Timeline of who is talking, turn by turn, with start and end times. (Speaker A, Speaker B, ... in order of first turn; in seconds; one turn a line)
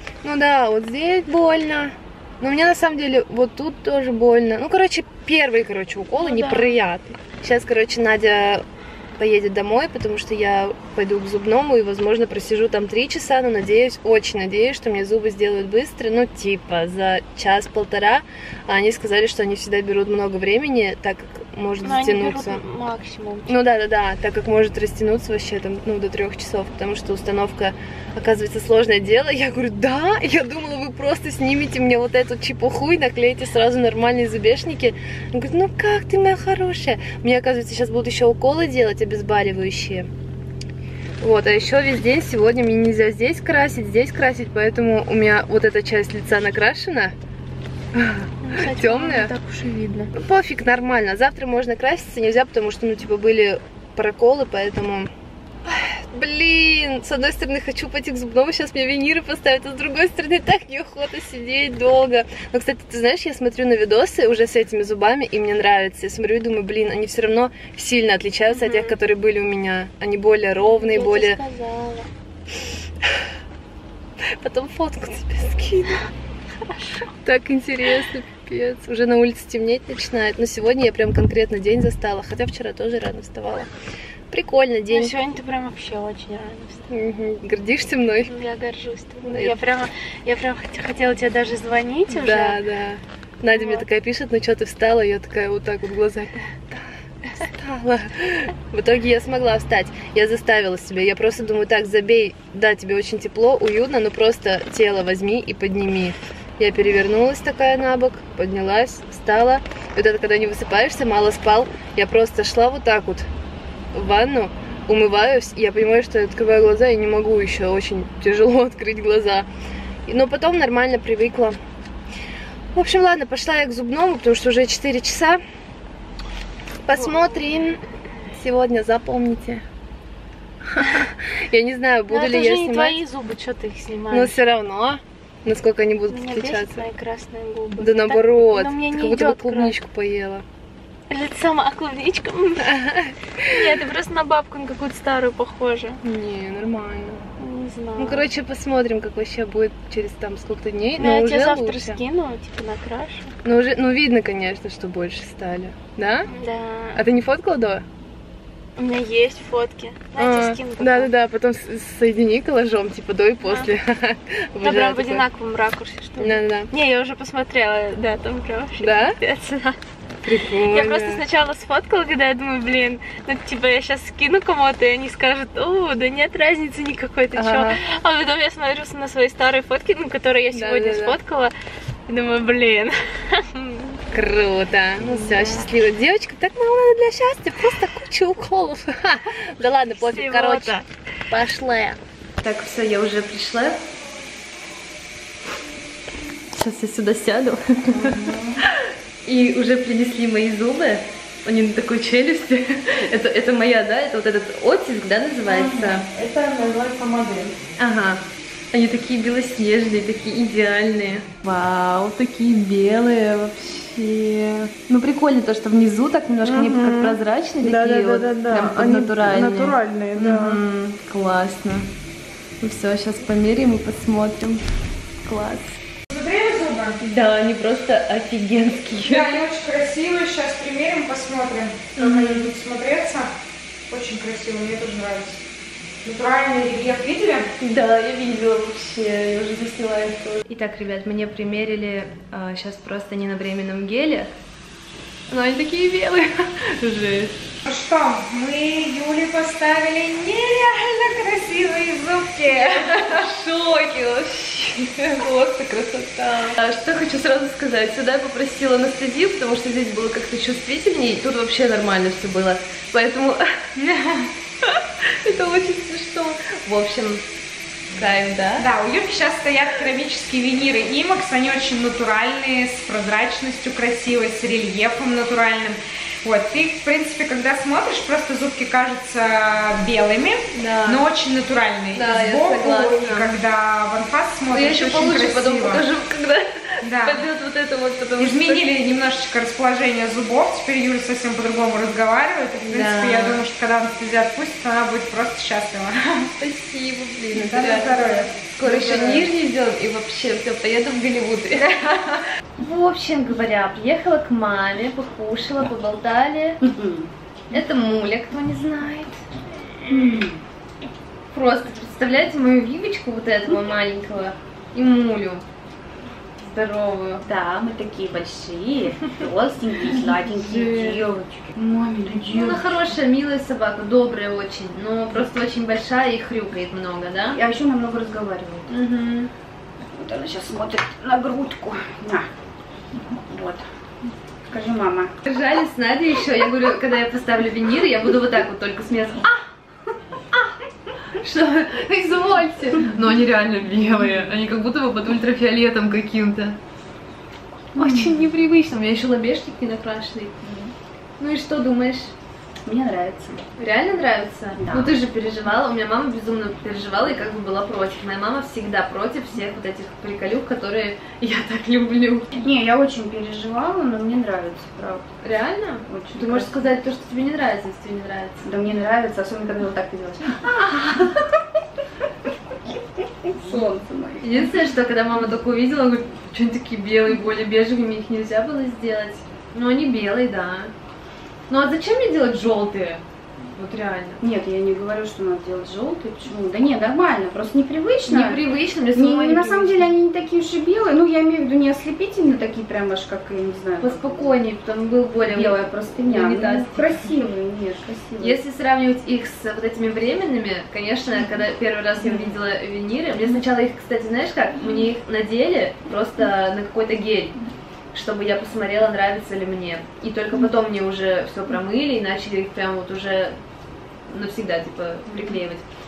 Speaker A: 0.2-22.6
Speaker B: 6.2-6.8
Speaker B: 21.8-23.5
Speaker A: 23.5-40.1
Speaker A: 41.2-47.1
Speaker A: 48.0-49.3
Speaker B: 48.4-50.1
Speaker A: 50.1-55.1
Speaker A: 55.6-71.4
Speaker B: 68.5-68.9
Speaker B: 70.6-72.1
Speaker A: 74.4-76.0
Speaker B: 76.6-77.1
Speaker A: 77.2-83.7
Speaker A: 84.3-85.1
Speaker B: 84.9-86.8
Speaker A: 86.9-88.3
Speaker B: 88.3-92.6
Speaker A: 89.2-89.5
Speaker A: 92.1-96.8
Speaker B: 93.5-93.8
Speaker A: 97.4-113.2
Speaker A: 113.9-119.5
Speaker A: 120.1-121.6
Speaker A: 122.7-125.4
Speaker A: 126.8-127.8
Speaker B: 127.0-127.5
Speaker A: 128.3-129.6
Speaker A: 130.7-133.0
Speaker B: 132.1-134.3
Speaker A: 134.1-136.8
Speaker B: 136.1-139.7
Speaker A: 137.8-140.4
Speaker B: 141.1-142.7
Speaker A: 142.6-143.5
Speaker B: 143.4-146.0
Speaker A: 146.0-147.2
Speaker B: 147.4-148.3
Speaker A: 148.0-152.0
Speaker B: 151.0-153.3
Speaker A: 153.4-156.3
Speaker B: 156.3-157.0
Speaker A: 156.9-157.8
Speaker B: 158.8-161.1
Speaker A: 160.2-165.2
Speaker B: 164.6-169.8
Speaker A: 166.2-166.7
Speaker A: 168.8-169.2
Speaker A: 170.2-171.2
Speaker B: 170.7-181.5
Speaker A: 177.3-177.8
Speaker A: 180.5-181.2
Speaker B: 182.1-184.0
Speaker A: 184.1-193.8
Speaker B: 185.0-185.6
Speaker B: 189.9-190.9
Speaker A: 196.5-206.1
Speaker C: 197.9-198.6
Speaker C: 205.5-206.0
Speaker A: 207.8-221.9
Speaker C: 218.5-219.1
Speaker D: 219.8-220.2
Speaker A: 222.6-224.6
Speaker A: 225.2-225.8
Speaker D: 226.1-227.0
Speaker A: 227.0-229.4
Speaker D: 229.0-233.3
Speaker A: 231.9-232.5
Speaker D: 233.9-235.4
Speaker D: 236.0-237.5
Speaker A: 237.6-244.3
Speaker A: 245.3-247.4
Speaker D: 247.6-253.2
Speaker A: 252.6-263.9
Speaker A: 264.6-267.2
Speaker A: 267.9-268.7
Speaker D: 268.6-285.8
Speaker A: 280.5-281.0
Speaker A: 281.9-283.3
Speaker A: 284.5-288.7
Speaker D: 286.8-287.2
Speaker D: 288.2-296.3
Speaker A: 292.6-293.4
Speaker A: 296.4-302.0
Speaker D: 297.3-299.3
Speaker A: 302.6-306.6
Speaker C: 306.6-307.1
Speaker A: 307.5-309.2
Speaker C: 309.9-310.4
Speaker A: 311.3-315.4
Speaker A: 316.4-317.2
Speaker C: 317.2-322.9
Speaker A: 320.4-321.0
Speaker A: 322.3-327.4
Speaker C: 327.3-328.7
Speaker A: 328.7-329.3
Speaker C: 329.9-332.3
Speaker C: 333.0-333.6
Speaker C: 334.5-335.1
Speaker A: 335.2-339.4
Speaker A: 341.2-346.6
Speaker A: 347.8-350.6
Speaker C: 347.8-348.2
Speaker A: 351.2-352.1
Speaker C: 352.6-353.4
Speaker A: 353.6-362.3
Speaker C: 354.6-354.9
Speaker C: 362.3-365.1
Speaker A: 365.2-368.4
Speaker C: 365.9-366.6
Speaker C: 368.4-371.4
Speaker C: 373.2-374.5
Speaker A: 374.2-380.7
Speaker A: 381.5-384.2
Speaker C: 384.2-388.4
Speaker A: 388.1-389.9
Speaker C: 388.9-394.4
Speaker A: 393.8-397.1
Speaker C: 395.2-398.4
Speaker A: 398.2-407.3
Speaker C: 402.0-402.3
Speaker A: 407.9-413.4
Speaker A: 414.1-415.6